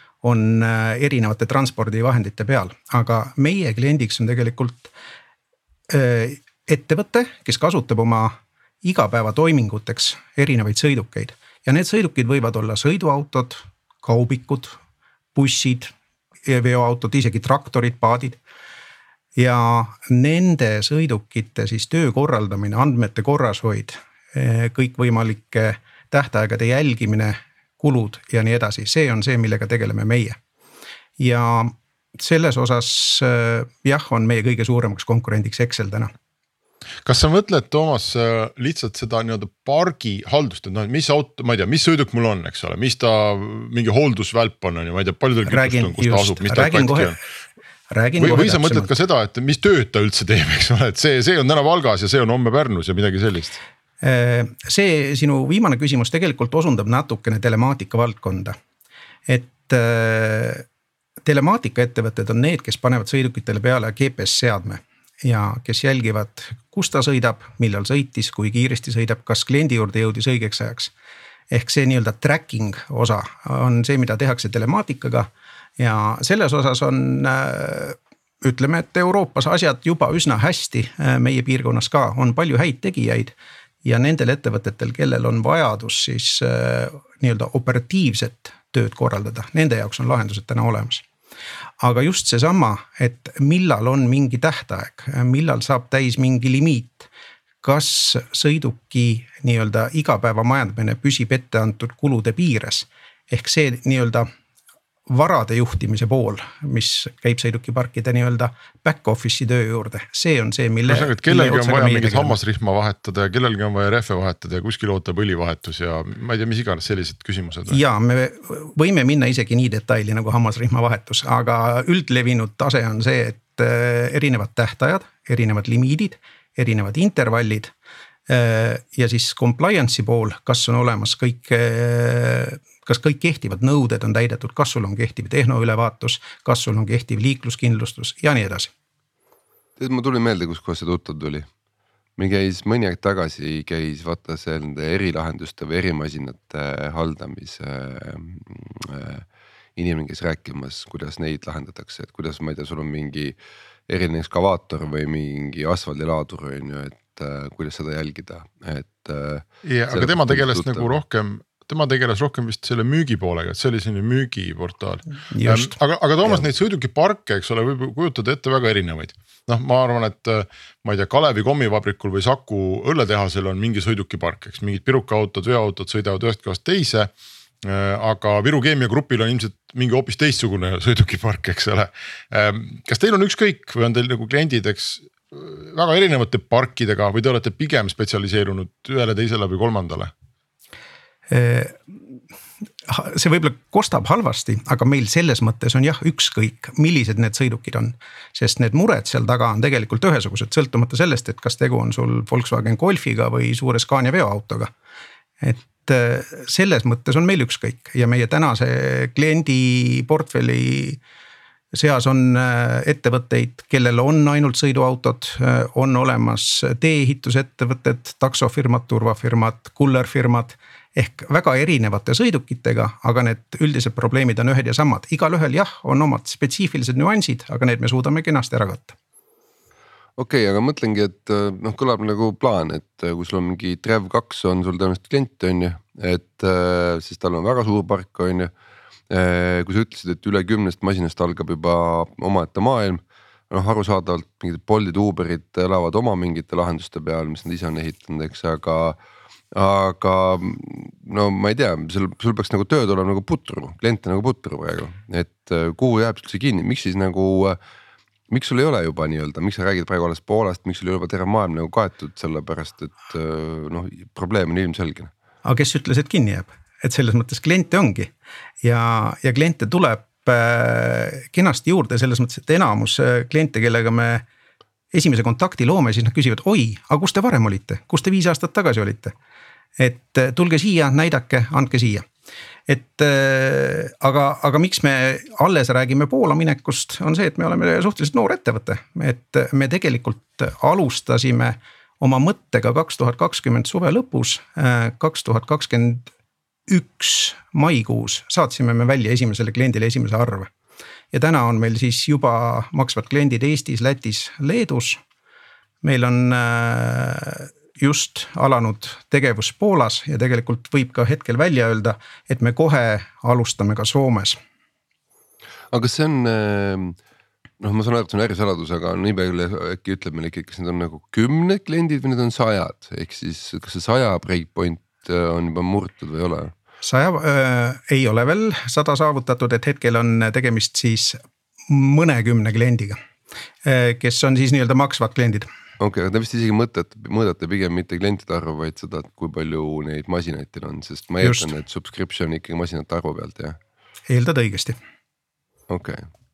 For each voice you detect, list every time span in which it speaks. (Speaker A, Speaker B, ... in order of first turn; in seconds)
Speaker A: 0.2-4.9, 5.9-14.8, 15.3-15.9, 16.4-18.4, 19.4-30.4, 31.2-36.1, 45.5-47.1, 47.9-48.9, 54.0-58.5, 59.3-60.6, 61.2-70.9, 71.5-75.3, 75.8-91.0, 91.8-97.1, 97.6-104.3, 105.1-112.4, 117.7-127.7, 128.3-138.7, 165.3-165.8, 191.3-192.0, 192.9-204.7, 205.4-211.0, 211.7-228.9, 265.4-268.1, 268.6-274.2, 274.9-279.1, 279.8-282.1, 282.7-296.1, 296.7-300.5, 301.1-305.0, 305.8-314.4, 326.8-333.0, 333.6-335.5, 341.2-341.5, 344.1-344.8
Speaker B: 37.0-47.1, 48.2-53.6, 110.9-117.8, 159.6-177.1, 177.6-190.1
Speaker C: 139.8-141.5, 142.2-149.2, 149.8-153.3, 153.9-160.9, 230.2-238.5, 239.1-249.0, 249.5-257.6, 258.3-265.1, 315.7-317.0, 317.6-326.5, 335.8-343.6, 345.7-346.1